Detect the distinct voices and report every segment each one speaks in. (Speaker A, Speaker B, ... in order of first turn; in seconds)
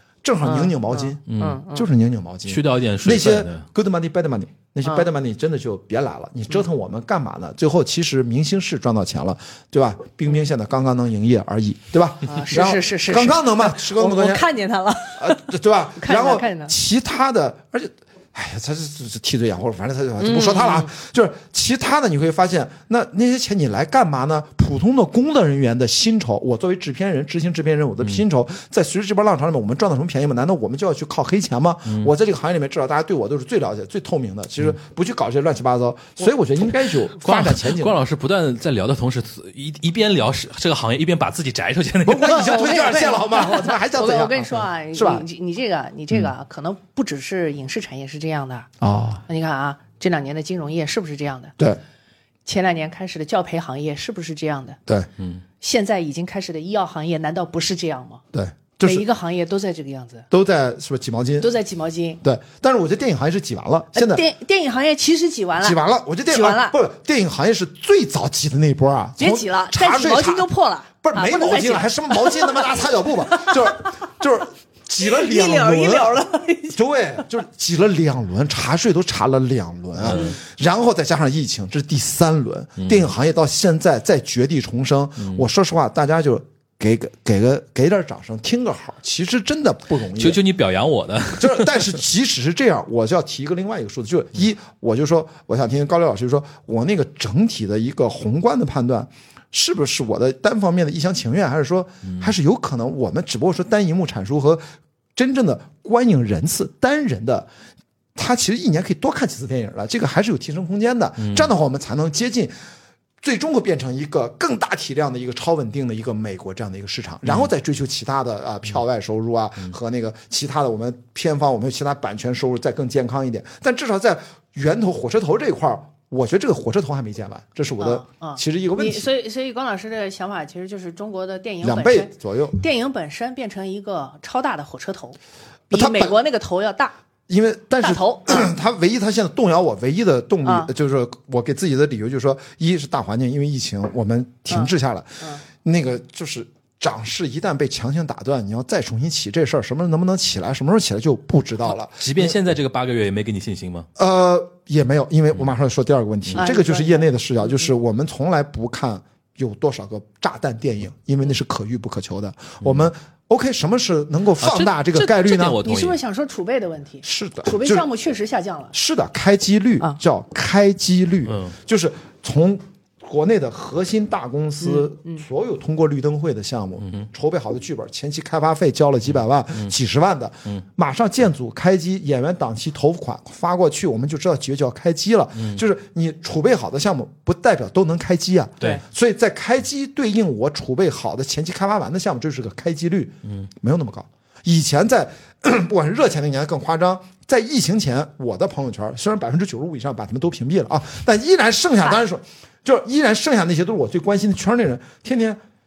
Speaker A: 0.2-14.5, 15.2-38.0, 42.0-45.3, 48.8-49.2, 58.3-59.0, 60.3-61.5, 62.2-64.2, 65.6-70.5, 71.0-76.2, 76.7-90.4, 91.4-104.6, 105.2-107.5, 108.2-112.5, 113.2-129.1, 131.6-132.6, 135.7-136.2, 137.3-152.4, 154.0-165.6, 167.0-167.9, 168.7-205.4
Speaker B: 0.4-1.9, 12.3-16.8, 20.2-20.9, 42.2-48.7, 49.3-51.5, 52.5-54.8, 55.6-58.2, 58.8-60.3, 61.4-62.2, 63.9-66.8, 69.2-74.0, 75.0-76.8, 80.1-80.4, 127.8-135.2, 135.7-136.9, 137.8-138.5, 140.4-140.7, 144.5-145.4, 156.3-157.1, 165.6-168.7, 174.6-175.2
Speaker C: 1.3-1.6, 2.5-3.7, 37.2-42.7, 80.0-80.4, 82.8-83.1, 85.2-85.5, 90.2-91.9, 102.0-102.3, 111.2-111.5, 151.9-153.9, 164.4-166.0, 171.3-171.6, 176.8-177.1, 185.4-185.6